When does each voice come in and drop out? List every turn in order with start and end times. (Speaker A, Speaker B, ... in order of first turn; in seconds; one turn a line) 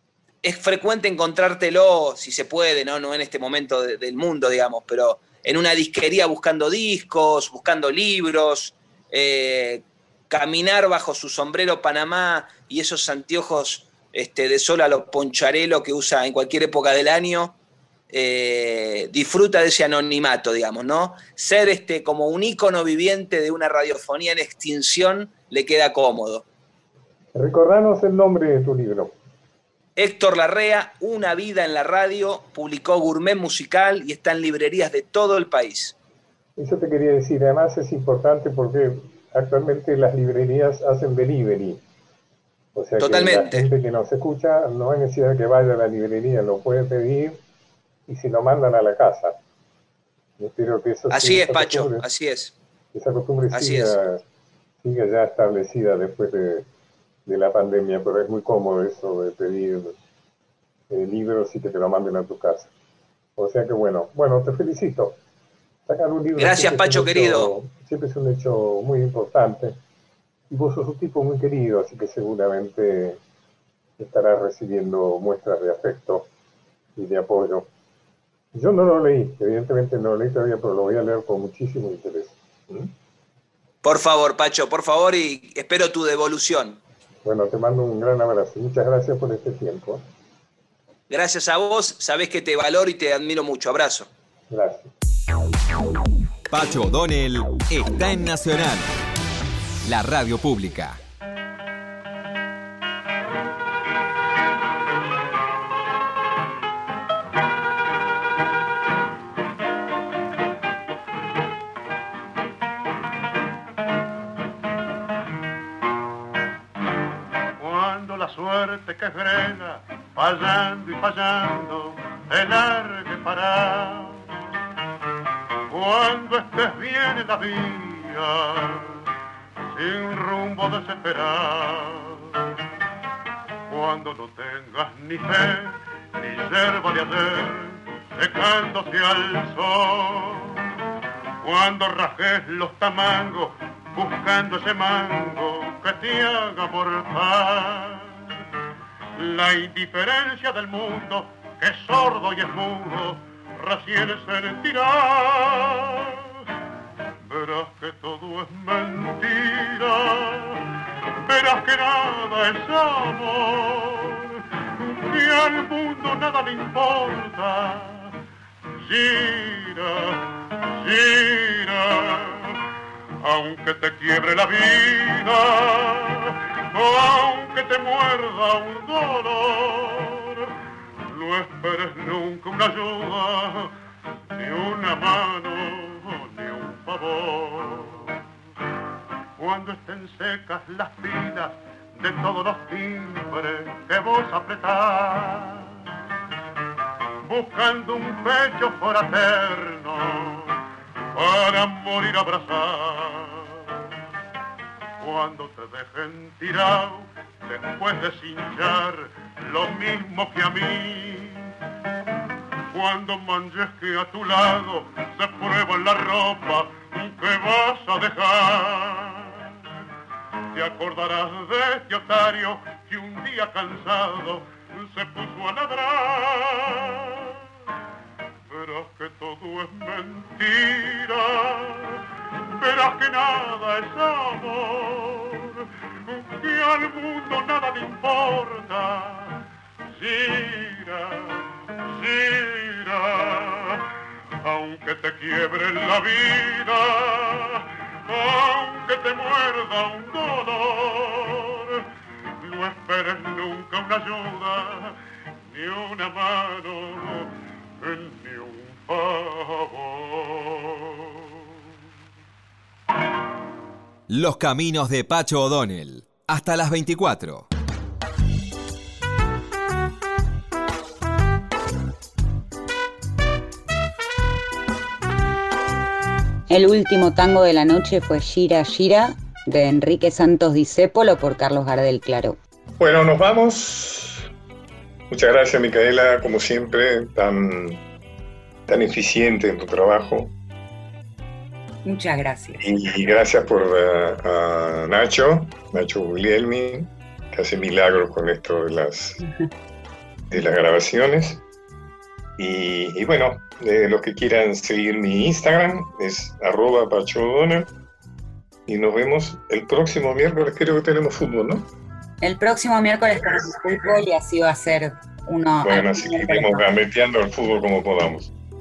Speaker A: 0.4-17.6
Speaker A: 18.1-26.4
Speaker B: 27.3-29.1
Speaker A: 29.9-35.9
Speaker B: 36.6-41.8
Speaker B: 42.7-47.4
Speaker A: 43.0-43.7
Speaker B: 48.1-49.3
Speaker B: 50.4-52.0
Speaker A: 51.1-52.5
Speaker B: 52.9-54.2
Speaker A: 53.5-54.0
Speaker B: 54.8-56.7
Speaker B: 57.2-59.9
Speaker B: 60.9-62.7
Speaker B: 63.4-65.2
Speaker B: 65.9-69.8
Speaker A: 66.3-67.5
Speaker B: 70.5-73.2
Speaker B: 74.0-76.3
Speaker B: 77.0-77.7
Speaker B: 78.5-82.9
Speaker A: 83.8-86.8
Speaker B: 87.2-90.0
Speaker A: 91.1-94.1
Speaker B: 94.5-94.9
Speaker C: 96.5-99.0
Speaker C: 99.8-101.0
Speaker D: 117.6-124.2
Speaker D: 125.7-128.9
Speaker D: 129.7-132.3
Speaker D: 133.7-140.6
Speaker D: 141.4-148.2
Speaker D: 149.2-156.2
Speaker D: 157.2-160.6
Speaker D: 161.2-168.1
Speaker D: 168.8-172.6
Speaker D: 173.2-180.5
Speaker D: 181.1-183.7
Speaker D: 184.3-188.1
Speaker D: 189.4-195.7
Speaker D: 197.2-200.6
Speaker D: 201.1-203.6
Speaker D: 205.0-211.5
Speaker D: 212.7-219.5
Speaker D: 220.5-227.4
Speaker D: 228.5-232.0
Speaker D: 232.6-239.4
Speaker D: 240.0-243.9
Speaker D: 244.4-251.8
Speaker D: 252.4-254.9
Speaker D: 255.5-261.2
Speaker C: 264.1-267.5
Speaker E: 276.5-282.4
Speaker B: 282.8-284.3
Speaker B: 285.1-287.8
Speaker B: 288.7-290.3
Speaker E: 291.8-292.7
Speaker B: 292.6-299.2
Speaker B: 300.3-301.4
Speaker B: 302.4-307.7
Speaker B: 308.7-311.7
Speaker E: 312.2-316.6
Speaker B: 315.6-318.3